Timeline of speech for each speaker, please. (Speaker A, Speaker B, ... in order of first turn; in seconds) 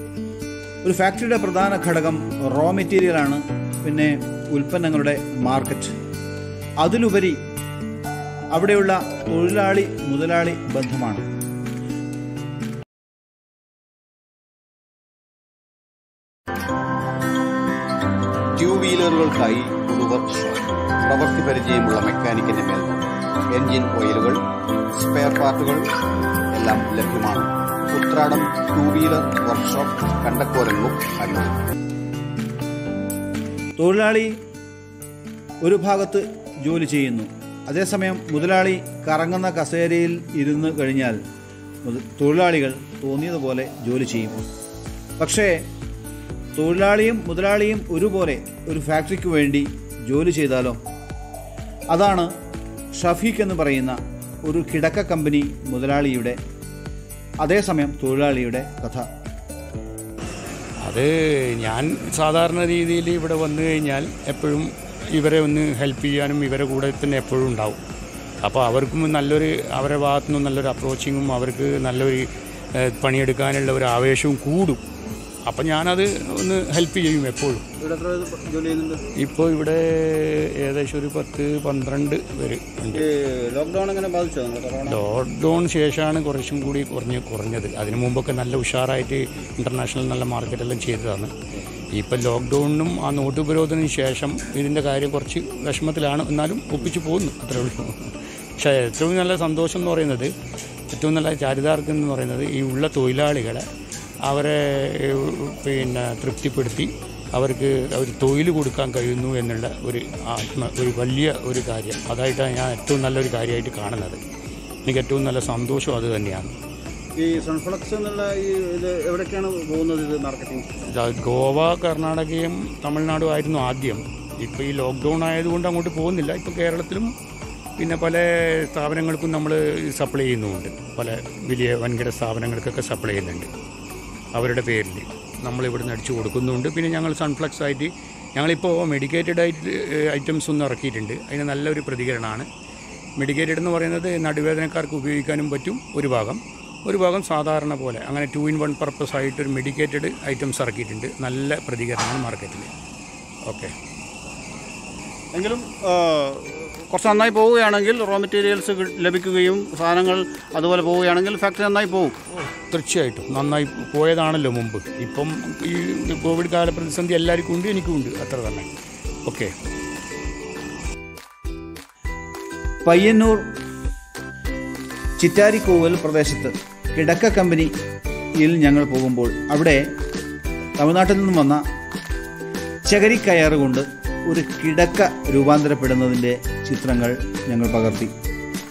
Speaker A: 0.8-5.9, 6.8-7.4, 8.5-11.3, 25.0-25.7, 29.3-29.8, 33.8-34.4, 35.6-41.2, 41.8-44.4, 45.2-45.6, 46.5-50.8, 51.9-52.3, 52.9-56.4, 57.4-59.1, 77.8-79.0, 82.9-85.0, 117.2-120.7, 155.3-162.2, 172.8-173.4, 175.2-177.7, 178.4-179.8, 180.8-181.6, 182.8-188.1
Speaker B: 18.6-23.1, 23.6-24.4, 25.0-25.8, 26.6-31.6
Speaker C: 60.8-67.8, 68.4-74.8, 75.5-77.7, 79.2-83.1, 84.8-91.3, 91.9-100.3, 100.9-103.7, 104.2-114.2, 114.8-116.5, 120.9-127.1, 127.8-133.5, 134.3-142.5, 143.2-152.7, 153.5-153.7, 162.3-168.7, 169.2-169.5